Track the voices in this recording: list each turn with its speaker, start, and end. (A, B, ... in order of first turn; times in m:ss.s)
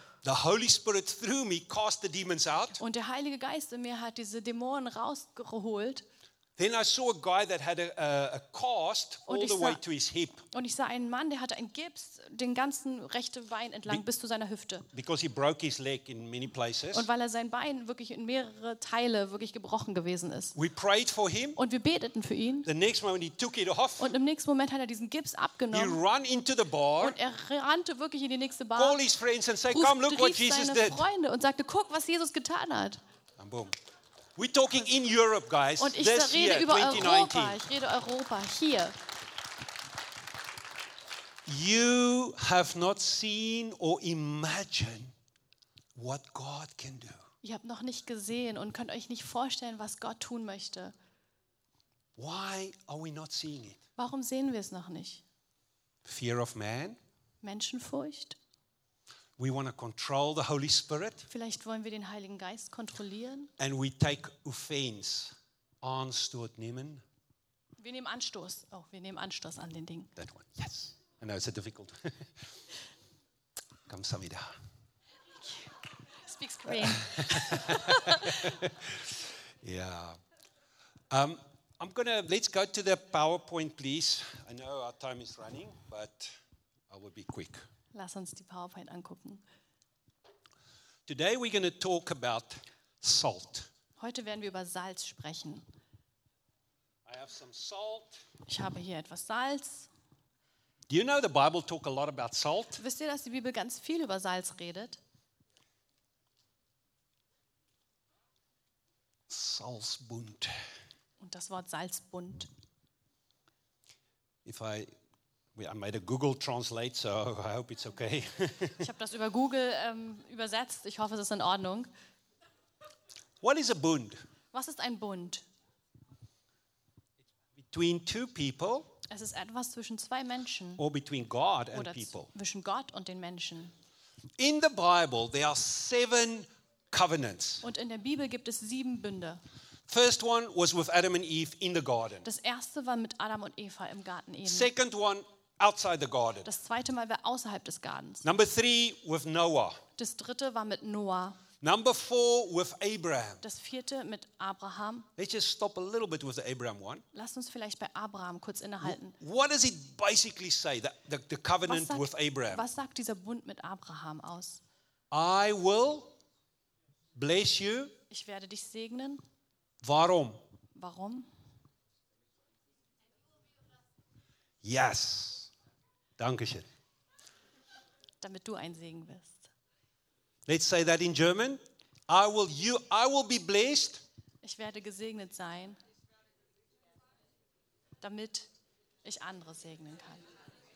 0:00.2-0:02.8 A
0:02.8-0:06.0 B
0:06.6-0:10.4 A
0:09.3-0:09.8 B
0:10.5-0:14.9 B
0:14.9-0:17.1 A
0:16.9-0:20.6 B
0:20.5-0:21.6 A
0:21.6-0:22.7 B
0:22.6-0:24.1 A
0:24.0-0:26.0 B
0:25.7-0:27.2 A
0:27.0-0:29.0 B
0:28.8-0:31.0 A
0:29.7-0:33.0 B
0:33.4-0:33.7 A
0:34.4-0:37.6 A
0:35.8-0:39.0 B
0:41.4-0:45.1 A
0:45.9-0:47.2 A
0:47.4-0:50.9 B
0:52.2-0:53.8 A
0:54.0-0:55.2 B
0:56.0-0:57.0 A
0:57.4-0:58.4 B
0:59.4-1:01.3 A
1:01.3-1:03.5 B
1:03.6-1:07.0 A
1:07.8-1:10.1 B
1:10.2-1:12.5 A
1:13.9-1:14.6 A
1:16.2-1:18.4 B
1:16.7-1:20.2 A
1:21.1-1:26.3 A
1:26.9-1:27.6 A
1:27.9-1:29.4 B
1:31.0-1:33.7 A
1:34.0-1:35.6 B
1:37.0-1:38.2 A
1:38.5-1:39.9 B
1:40.9-1:42.8 A
1:42.8-1:45.0 B
1:49.3-1:50.5 A
1:51.2-1:52.5 B
1:54.4-1:54.9 A
1:55.5-1:58.9 A
1:58.8-2:01.9 B
2:03.4-2:04.2 A
2:04.5-2:05.4 B
2:07.6-2:08.9 A
2:09.1-2:10.8 B
2:10.8-2:12.3 A
2:11.7-2:13.7 B
2:14.4-2:17.7 A
2:17.6-2:19.4 B
2:19.9-2:22.3 A
2:22.2-2:24.7 B
2:24.4-2:26.5 A
2:26.4-2:28.2 B
2:28.2-2:29.8 A
2:30.0-2:31.4 B
2:31.6-2:33.4 A
2:33.4-2:35.1 B
2:35.2-2:37.0 A
2:37.1-2:39.2 B
2:38.8-2:42.7 A
2:41.6-2:44.6 B
2:45.1-2:46.1 A
2:47.1-2:47.9 A
2:48.1-2:49.2 B
2:49.8-2:50.4 A
2:50.7-2:51.3 B
2:54.6-2:55.5 A
2:56.2-2:56.7 A
2:58.2-2:59.5 B
3:00.5-3:04.0 A
3:04.4-3:05.8 B
3:08.0-3:08.5 B
3:09.0-3:10.2 B